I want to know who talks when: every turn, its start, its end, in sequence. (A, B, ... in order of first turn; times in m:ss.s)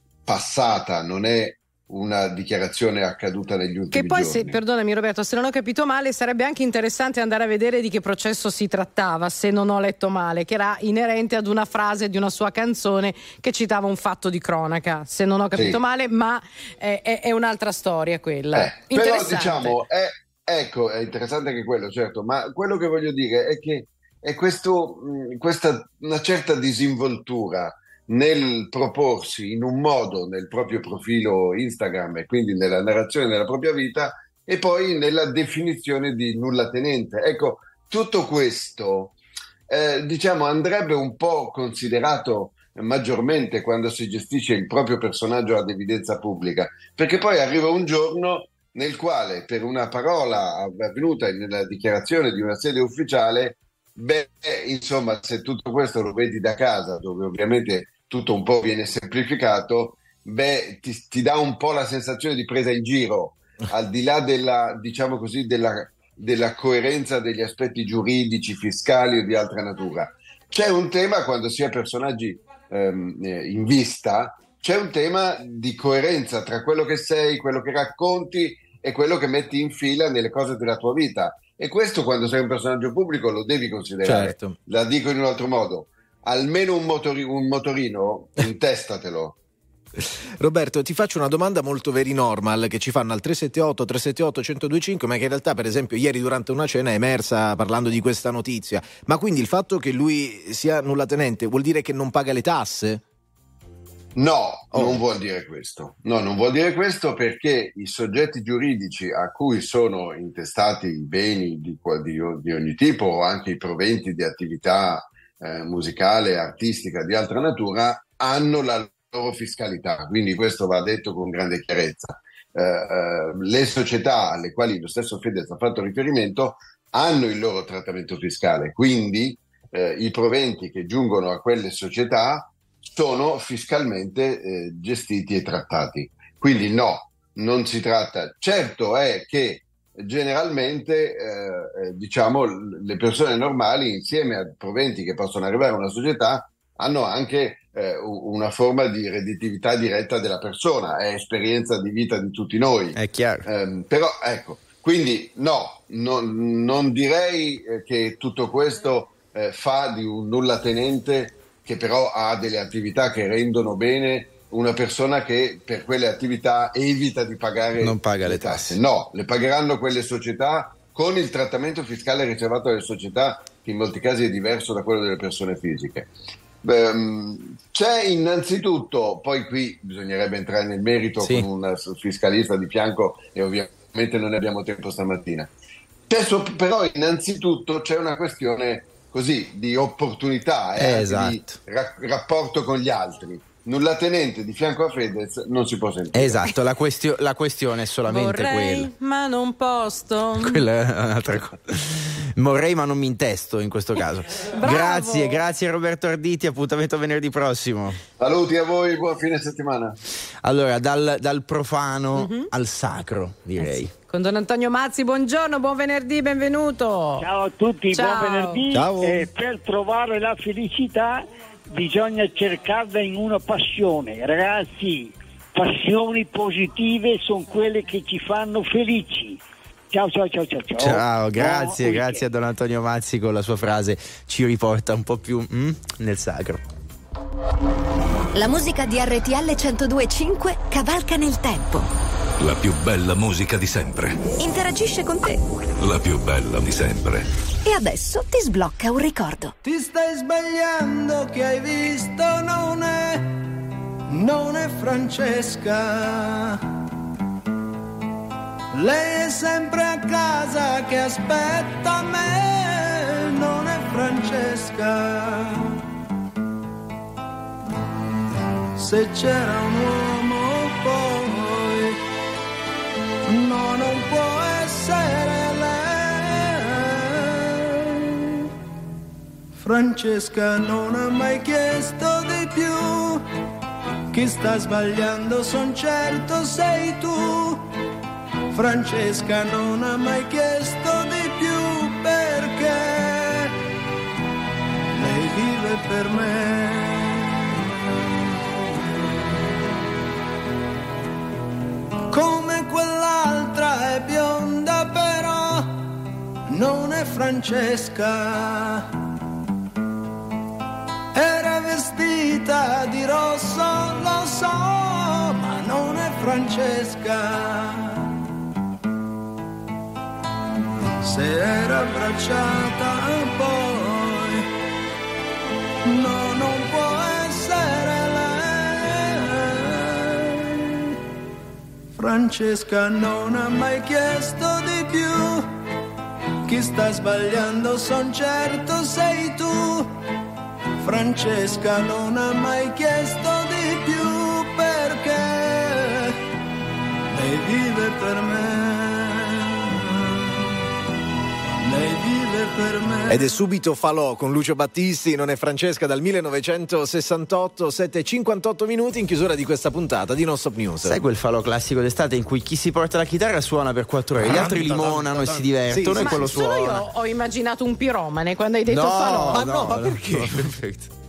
0:00.2-0:04.6 A
0:03.9-0:19.8 B
0:15.5-0:15.8 A
0:18.5-0:39.2 A
0:39.7-1:29.4 A
1:24.0-1:24.6 C
1:30.0-1:43.0 C
1:44.2-2:56.1 A
1:44.7-1:45.0 C
2:32.9-2:33.5 D
2:47.8-2:48.8 D
2:56.6-3:05.5 A
3:01.2-3:01.4 D
3:06.1-3:16.4 A
3:10.8-3:11.6 D
3:16.1-3:18.9 D
3:18.0-3:20.6 B
3:20.4-3:28.0 D
3:24.6-3:25.4 B
3:28.2-3:30.0 A
3:30.4-3:33.9 D
3:32.2-3:32.5 B
3:33.6-3:37.2 B
3:37.2-3:52.2 E
3:37.9-3:38.6 B
3:38.7-3:39.2 C
3:50.8-3:56.6 D
3:58.3-4:01.9 F
4:02.4-4:04.2 G
4:04.4-4:05.4 F
4:05.8-4:07.2 G
4:07.6-4:09.5 F
4:09.6-4:13.2 H
4:14.1-4:16.6 H
4:18.7-4:25.6 H
4:28.8-4:32.0 H
4:33.2-4:37.0 H
4:39.6-4:43.2 H
4:44.1-4:47.6 H
4:48.5-4:53.5 H
4:54.9-4:57.2 H
5:02.1-5:05.7 H
5:06.5-5:08.8 H
5:11.1-5:17.9 H
5:21.0-5:24.4 H
5:25.8-5:30.5 H
5:32.0-5:35.4 H
5:36.5-5:39.9 H
5:40.8-5:46.1 H
5:47.1-5:49.6 H
5:51.6-5:53.2 H
5:53.1-6:01.0 C
6:00.8-6:06.8 D
6:04.2-6:06.5 C
6:05.9-6:09.7 B
6:08.7-6:10.9 D
6:09.3-6:10.5 C